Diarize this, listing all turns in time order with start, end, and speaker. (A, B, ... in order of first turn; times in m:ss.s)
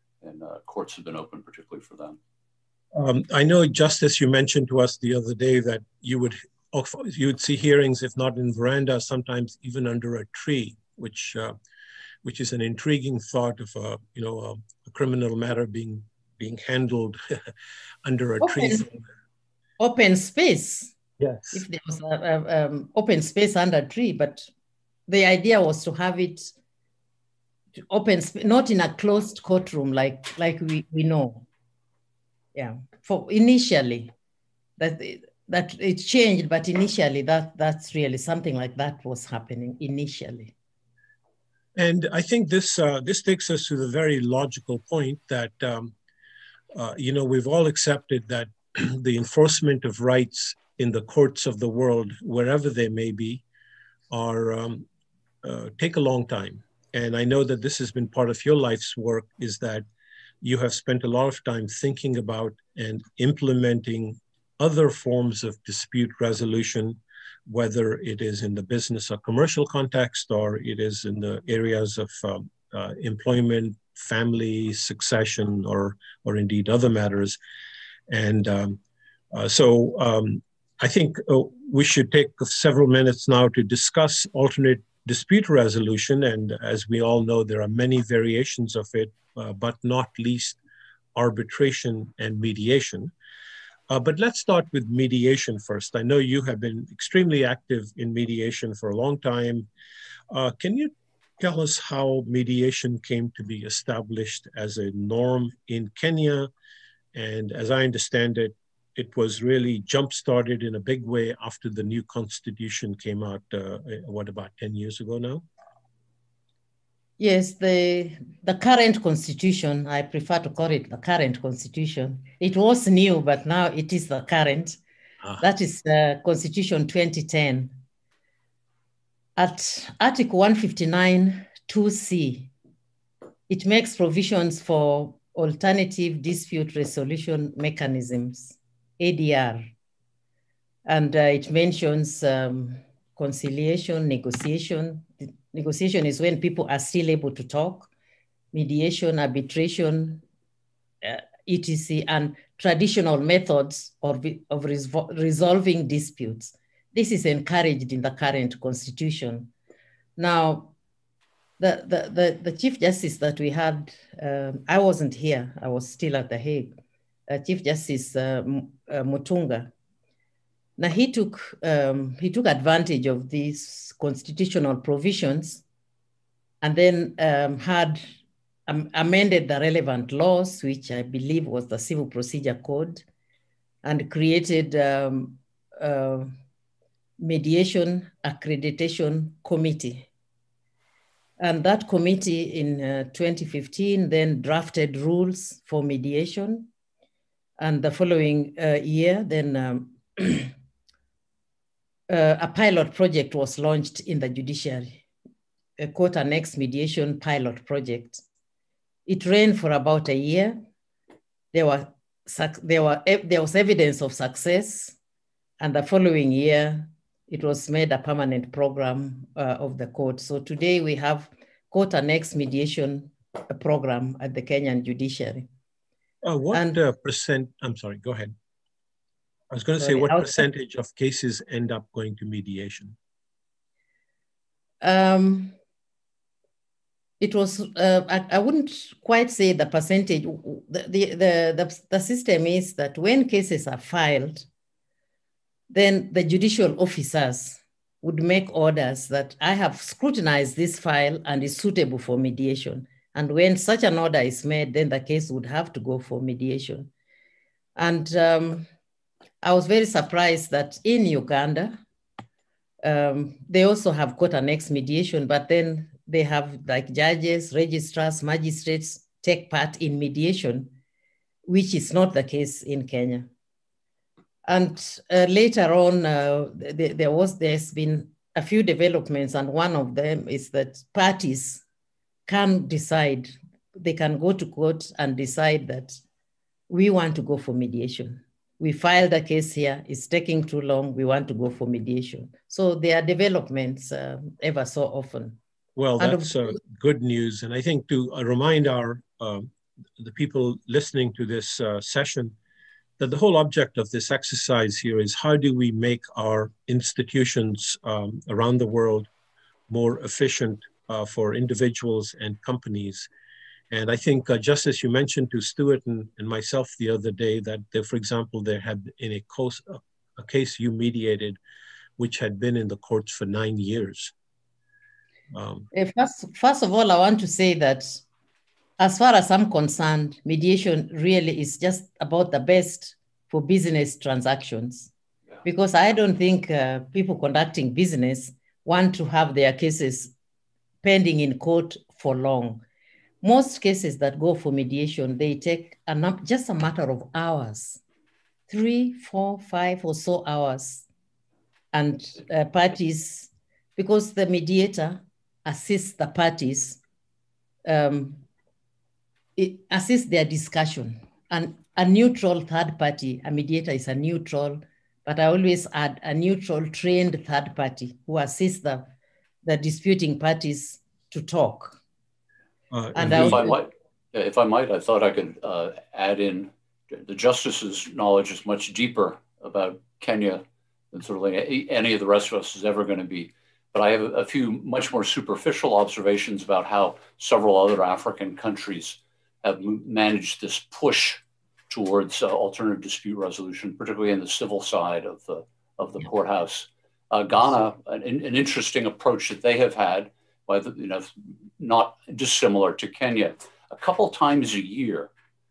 0:00.2-0:02.2 A
0:02.9-0:11.5 B
0:12.2-0:17.2 B
0:18.0-0:19.0 B
0:18.4-0:18.8 C
0:19.8-0:21.0 C
0:21.2-0:21.6 B
0:21.5-0:24.5 C
0:25.1-0:26.5 C
0:27.9-0:31.5 C
0:32.6-0:34.1 C
0:34.8-0:40.5 C
0:41.8-0:46.0 B
0:46.7-0:53.4 B
0:54.1-0:54.9 B
0:55.4-0:59.8 B
1:00.4-1:17.4 B
1:18.1-1:18.8 B
1:19.3-1:30.6 B
1:31.2-1:33.1 B
1:33.9-1:39.7 B
1:40.3-1:46.5 B
1:47.1-1:55.5 B
1:57.2-2:04.8 C
2:05.4-2:07.8 C
2:09.4-2:12.5 C
2:13.5-2:19.7 C
2:20.9-2:27.9 C
2:28.5-2:30.2 C
2:31.0-2:39.5 C
2:40.2-2:40.7 C
2:41.6-2:46.7 C
2:47.3-2:49.7 C
2:50.8-2:55.6 C
2:56.6-2:58.1 C
2:58.7-3:03.0 C
3:03.8-3:06.3 C
3:07.2-3:10.1 C
3:11.4-3:16.7 C
3:17.6-3:20.5 C
3:22.1-3:25.0 C
3:25.8-3:28.2 C
3:29.1-3:30.6 C
3:31.5-3:35.0 C
3:35.6-3:45.5 C
3:46.2-3:48.4 B
3:49.5-3:53.0 B
3:49.8-3:50.4 C
3:54.8-3:55.6 C
3:57.2-4:04.5 C
4:05.7-4:16.9 C
4:17.8-4:18.7 C
4:19.4-4:21.8 C
4:22.8-4:30.7 C
4:31.5-4:33.3 C
4:34.4-4:41.6 C
4:42.3-4:46.0 C
4:46.7-4:55.4 C
4:55.8-5:02.4 B
4:56.0-4:56.6 C
5:03.0-5:09.1 B
5:09.7-5:13.1 B
5:13.7-5:21.4 B
5:22.0-5:24.1 B
5:25.3-5:25.7 B
5:25.7-5:28.0 C
5:28.8-5:34.9 C
5:35.4-5:40.1 C
5:40.8-5:42.6 C
5:43.2-5:47.8 C
5:48.5-5:50.8 C
5:51.7-5:56.8 C
5:57.6-5:58.2 C
5:59.4-6:08.9 C
6:09.4-6:11.8 C
6:12.7-6:13.5 B
6:12.9-6:13.6 C
6:13.1-6:45.1 A